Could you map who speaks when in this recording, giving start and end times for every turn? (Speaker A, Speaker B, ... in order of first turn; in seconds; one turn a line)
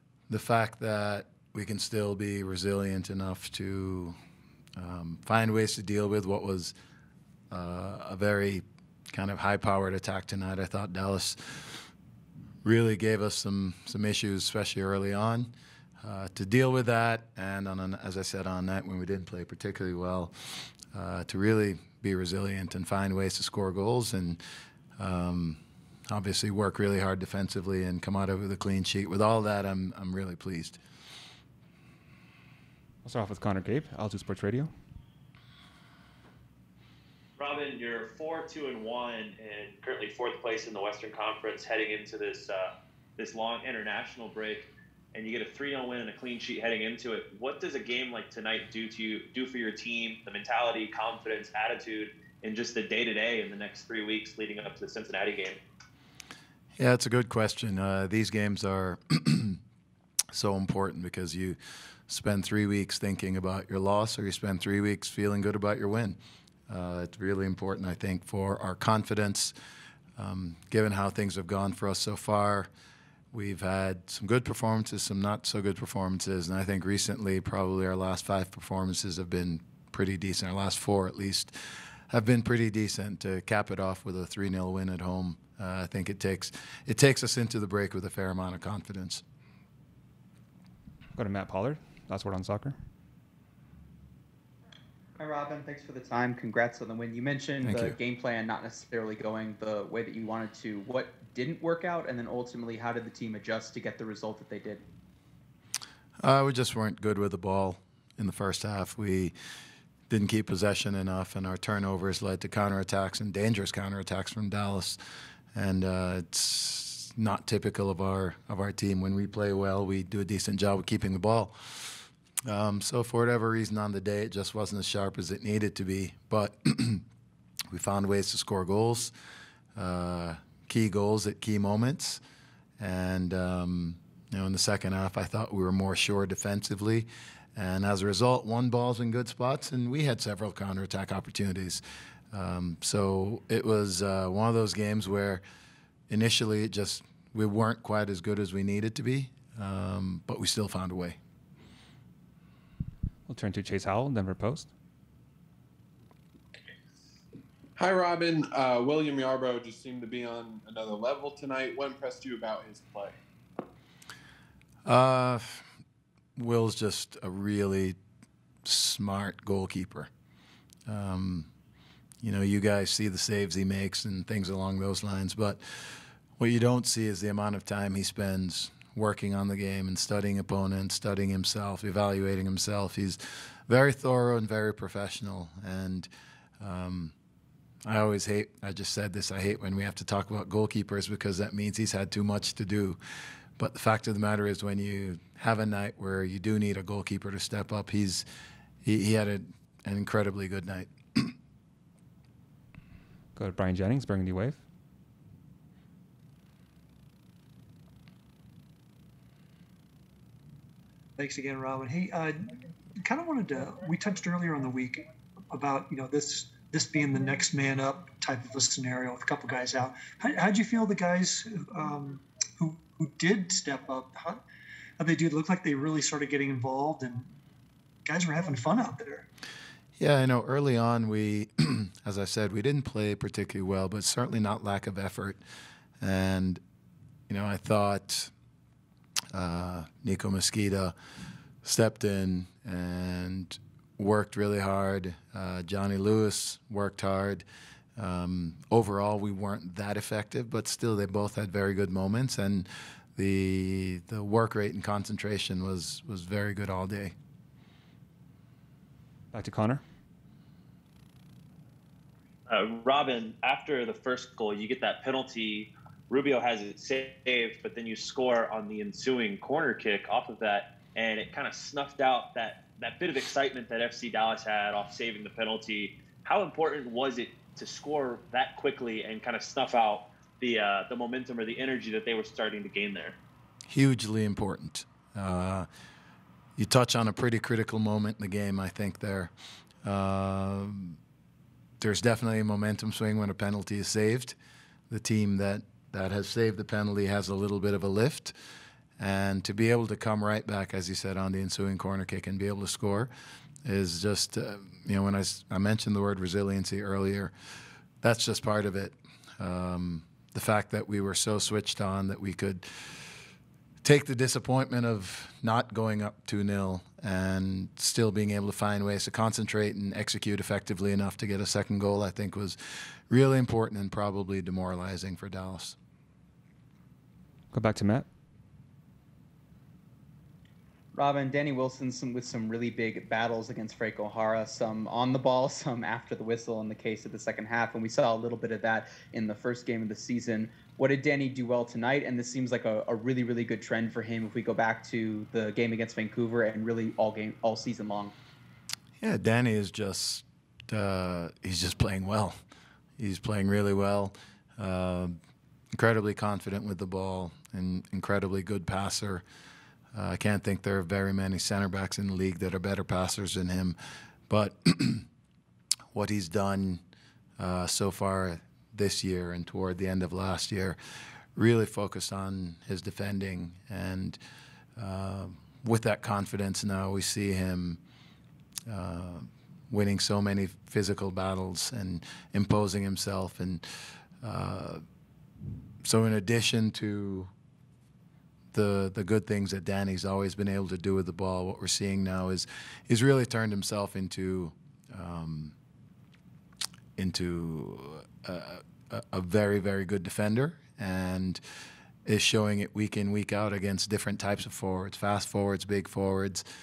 Speaker A: 0.3-4.2
Speaker A: 4.8-6.7
Speaker A: 7.5-11.8
Speaker A: 12.6-24.4
Speaker A: 25.0-25.6
Speaker A: 26.1-30.8
Speaker B: 33.0-34.7
Speaker C: 37.4-55.6
Speaker A: 56.8-59.6
Speaker A: 60.3-66.2
Speaker A: 66.7-69.5
Speaker A: 70.2-72.7
Speaker A: 73.3-81.5
Speaker A: 82.1-89.2
Speaker B: 91.2-92.8
Speaker D: 95.2-104.8
Speaker A: 97.6-98.0
Speaker A: 106.2-109.3
Speaker A: 110.1-115.0
Speaker A: 115.5-127.0
Speaker A: 127.7-129.1
Speaker A: 129.8-132.2
Speaker A: 132.8-145.4
Speaker A: 146.1-151.2
Speaker B: 153.3-154.7
Speaker E: 157.8-163.2
Speaker A: 164.9-165.6
Speaker A: 166.4-168.0
Speaker A: 168.7-170.1
Speaker A: 170.9-171.5
Speaker A: 172.2-186.1
Speaker A: 186.6-187.1
Speaker A: 187.8-193.0
Speaker A: 193.6-198.3
Speaker A: 198.8-201.3
Speaker B: 203.3-204.6
Speaker F: 211.2-224.4
Speaker F: 225.0-227.3
Speaker F: 228.1-229.3
Speaker A: 230.0-235.4
Speaker A: 236.0-236.6
Speaker A: 237.3-238.3
Speaker A: 239.3-240.9
Speaker A: 241.6-247.4
Speaker A: 248.0-257.1
Speaker B: 259.3-259.8
Speaker C: 262.5-283.2
Speaker A: 283.7-285.7
Speaker A: 286.6-289.3
Speaker A: 289.8-291.0
Speaker A: 291.8-294.4
Speaker A: 294.9-298.3
Speaker A: 299.0-303.1
Speaker A: 303.6-307.3
Speaker A: 308.0-312.7
Speaker A: 313.8-322.6
Speaker A: 323.1-325.8
Speaker B: 327.5-328.1
Speaker D: 330.9-348.1
Speaker A: 349.0-352.4
Speaker A: 353.0-355.2
Speaker A: 355.7-359.2
Speaker A: 359.9-363.8
Speaker A: 364.3-365.1
Speaker A: 365.9-366.8
Speaker A: 367.4-370.8
Speaker A: 371.4-374.2
Speaker A: 374.8-377.8
Speaker A: 378.7-383.6
Speaker A: 384.2-384.8
Speaker A: 385.9-387.3
Speaker A: 388.5-395.6
Speaker A: 397.0-401.4
Speaker A: 402.1-406.4